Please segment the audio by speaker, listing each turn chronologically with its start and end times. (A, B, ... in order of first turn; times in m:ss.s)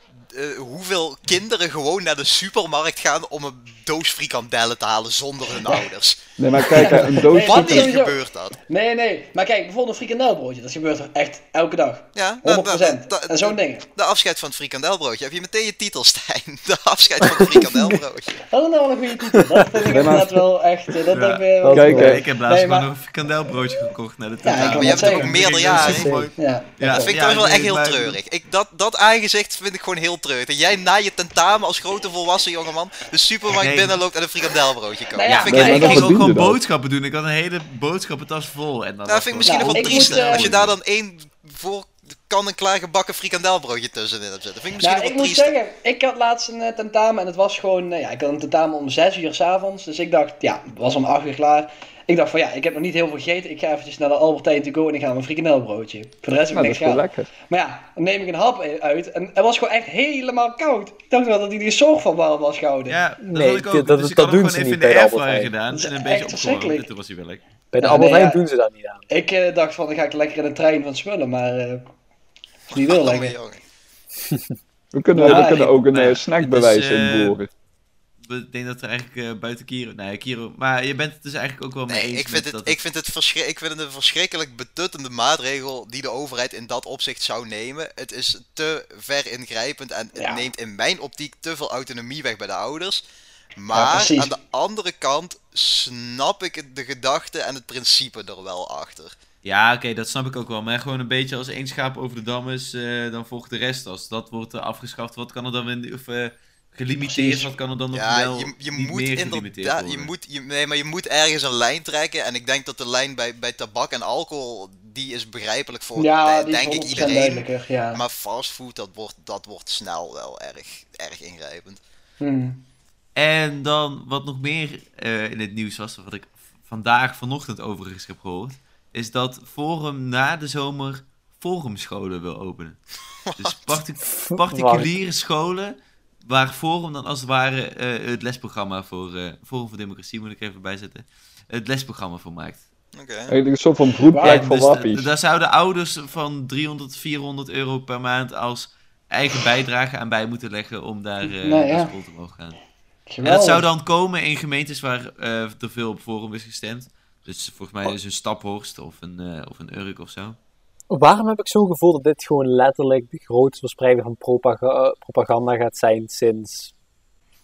0:00.3-0:08.6 A
0:06.4-0:07.9 B
0:06.7-0:13.9 C
0:12.1-0:18.4 A
0:17.3-0:17.8 D
0:18.5-0:22.9 C
0:19.3-0:20.3 D
0:19.9-0:20.3 B
0:21.1-0:28.2 E
0:21.6-0:22.2 D
0:21.7-0:22.2 B
0:24.4-0:25.7 C
0:24.5-0:26.2 A
0:25.7-0:26.3 D
0:26.4-0:27.1 C
0:26.9-0:36.1 A
0:33.5-0:34.0 E
0:35.1-0:36.1 C
0:35.2-0:40.8 E
0:35.5-0:36.6 B
0:39.0-0:45.5 A
0:39.4-0:40.5 C
0:44.8-1:03.0 C
0:56.5-0:57.3 B
1:02.9-1:07.4 E
1:03.2-1:05.5 D
1:05.7-1:06.9 C
1:07.7-1:09.0 D
1:07.8-1:08.4 C
1:09.1-1:11.9 C
1:12.7-1:13.3 C
1:12.7-1:13.6 A
1:14.9-1:17.5 B
1:15.1-1:15.8 C
1:15.2-1:17.4 E
1:18.2-1:22.8 E
1:21.9-1:33.0 A
1:30.2-1:30.5 C
1:33.6-1:39.2 A
1:33.7-1:34.3 C
1:39.4-1:50.1 E
1:47.0-1:47.5 C
1:47.9-2:01.8 A
1:56.0-1:58.0 C
2:02.2-2:02.6 C
2:03.2-2:12.8 E
2:13.2-2:13.7 A
2:13.4-2:22.6 E
2:14.0-2:14.9 D
2:22.9-2:23.4 A
2:23.3-2:25.1 B
2:24.1-2:24.4 C
2:24.2-2:32.6 E
2:31.2-2:31.9 C
2:33.1-2:33.6 C
2:33.2-2:40.4 E
2:40.9-2:46.7 D